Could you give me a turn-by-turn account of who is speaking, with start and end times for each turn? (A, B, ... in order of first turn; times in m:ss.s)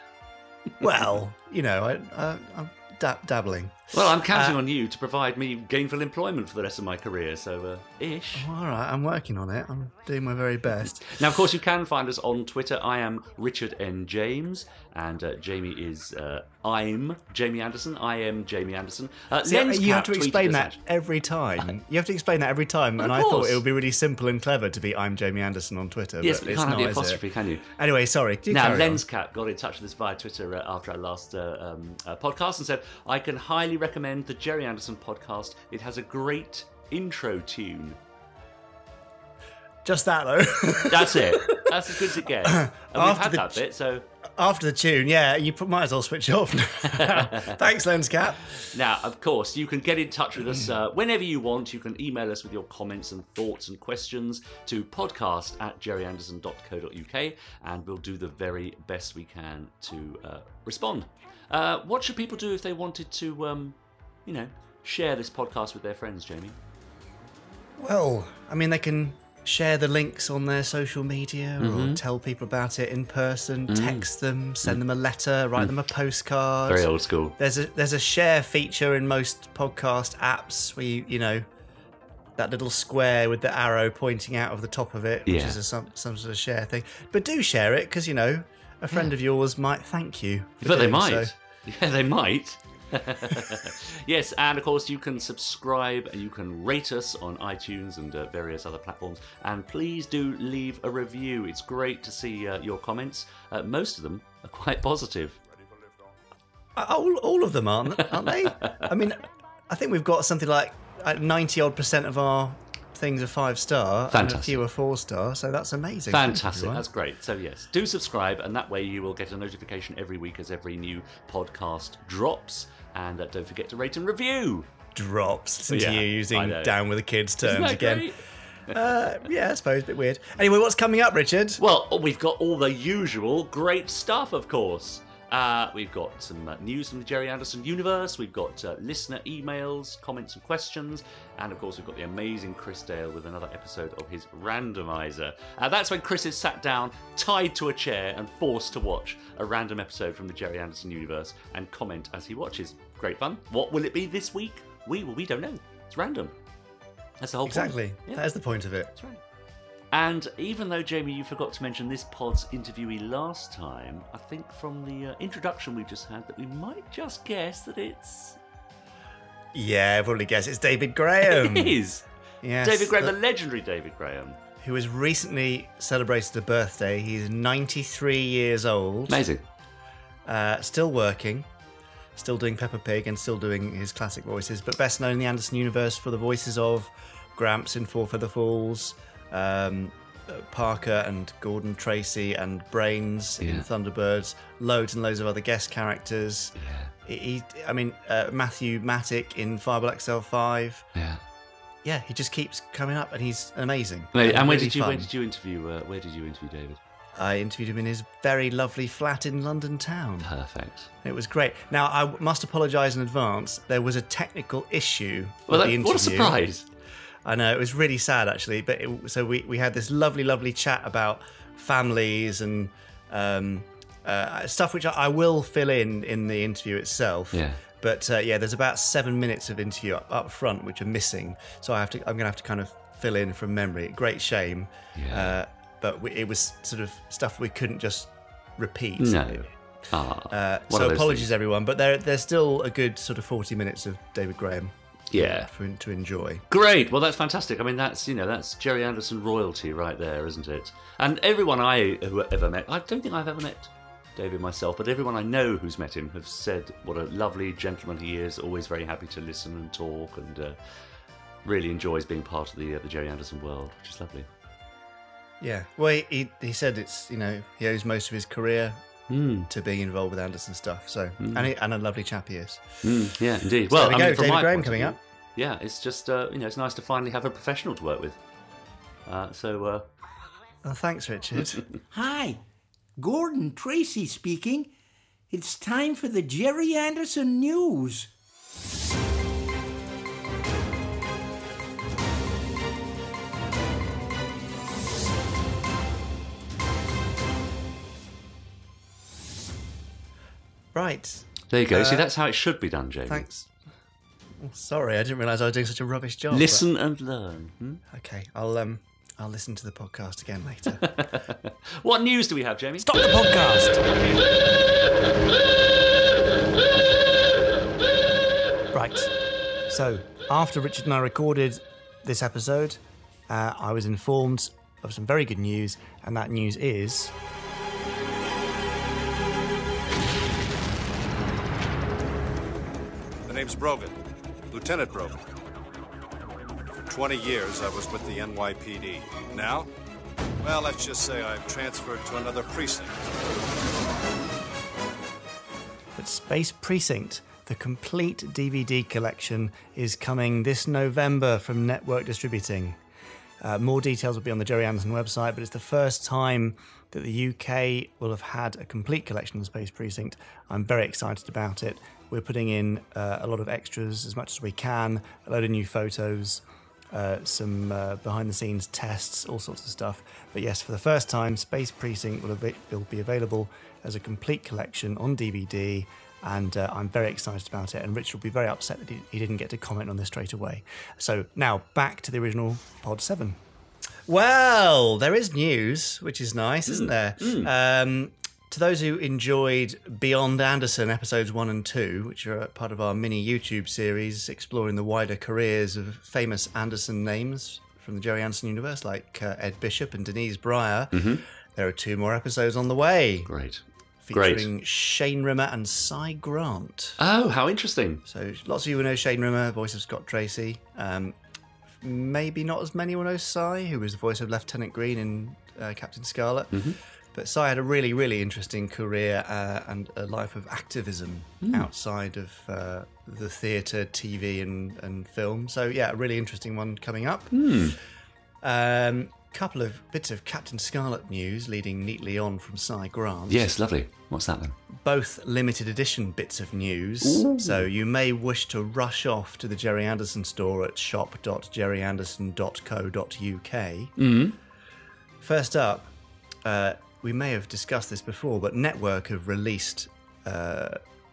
0:00.8-0:04.6 A
0:03.9-0:08.5 B
0:08.4-0:11.2 A
0:11.1-0:20.8 B
0:19.4-0:27.2 A
0:23.0-0:23.6 B
0:26.2-0:27.6 B
0:27.8-0:29.0 A
0:28.5-0:38.0 B
0:39.8-0:41.7 A
0:40.8-0:44.0 B
0:42.4-0:43.6 A
0:44.4-0:48.6 A
0:47.0-0:47.6 B
0:48.7-1:06.6 B
1:07.8-1:21.5 A
1:11.6-1:12.0 B
1:13.7-1:14.1 B
1:16.7-1:17.4 B
1:22.4-1:31.3 A
1:25.3-1:25.6 B
1:30.6-1:45.4 B
1:46.8-1:56.8 A
1:54.1-1:54.6 B
1:56.1-2:04.7 B
2:05.0-2:08.0 A
2:05.7-2:06.8 B
2:07.4-2:08.2 B
2:08.7-2:11.6 A
2:11.6-2:36.3 B
2:37.2-2:38.2 B
2:37.5-2:38.9 A
2:39.0-2:39.2 B
2:39.9-2:48.4 B
2:49.5-2:51.8 A
2:51.2-2:52.0 B
2:52.4-2:53.1 A
2:52.6-2:54.4 B
2:54.6-2:59.2 A
2:59.1-2:59.4 B
3:00.2-3:01.5 A
3:02.2-3:20.9 A
3:13.4-3:13.7 B
3:16.6-3:16.9 B
3:21.0-3:21.2 B
3:21.8-3:25.1 A
3:24.1-3:26.8 B
3:27.2-3:30.3 A
3:30.2-3:30.9 B
3:31.0-3:36.4 A
3:35.5-3:36.6 B
3:37.2-3:59.5 A
3:47.3-3:47.6 B
3:55.0-3:55.4 B
3:59.0-4:01.3 B
4:00.3-4:06.4 A
4:05.1-4:05.5 B
4:06.5-4:20.6 B
4:21.4-4:24.3 B
4:25.4-4:28.8 A
4:29.1-4:29.5 B
4:29.5-4:32.8 A
4:31.2-4:31.5 B
4:32.8-4:38.2 B
4:33.7-4:35.0 A
4:39.1-4:39.9 B
4:40.6-4:41.6 A
4:41.9-4:42.4 C
4:43.0-4:44.7 C
4:45.3-4:48.1 C
5:00.7-5:02.1 A
5:01.5-5:03.2 B
5:03.1-5:03.5 A
5:04.4-5:06.6 A
5:06.3-5:07.8 B
5:07.9-5:10.8 A
5:10.8-5:12.9 B
5:12.8-5:13.9 A
5:18.7-5:19.1 A
5:19.7-5:27.1 A
5:33.3-5:34.0 D
5:34.5-5:35.2 D
5:36.9-5:39.7 D
5:40.4-5:43.0 D
5:46.0-5:52.8 A
5:53.4-6:23.4 A
6:24.1-6:41.0 A
6:26.7-6:27.5 B
6:40.9-6:41.2 B
6:41.6-6:43.3 A
6:43.3-6:44.5 B
6:44.1-6:47.0 A
6:47.0-6:48.0 B
6:48.1-6:51.2 A
6:51.8-6:56.6 A
6:57.1-7:07.5 A
7:07.3-7:07.8 B
7:08.4-7:13.5 A
7:13.3-7:14.6 B
7:14.8-7:23.9 A
7:17.0-7:17.7 B
7:24.0-7:24.4 B
7:25.2-7:25.9 A
7:26.4-7:30.8 A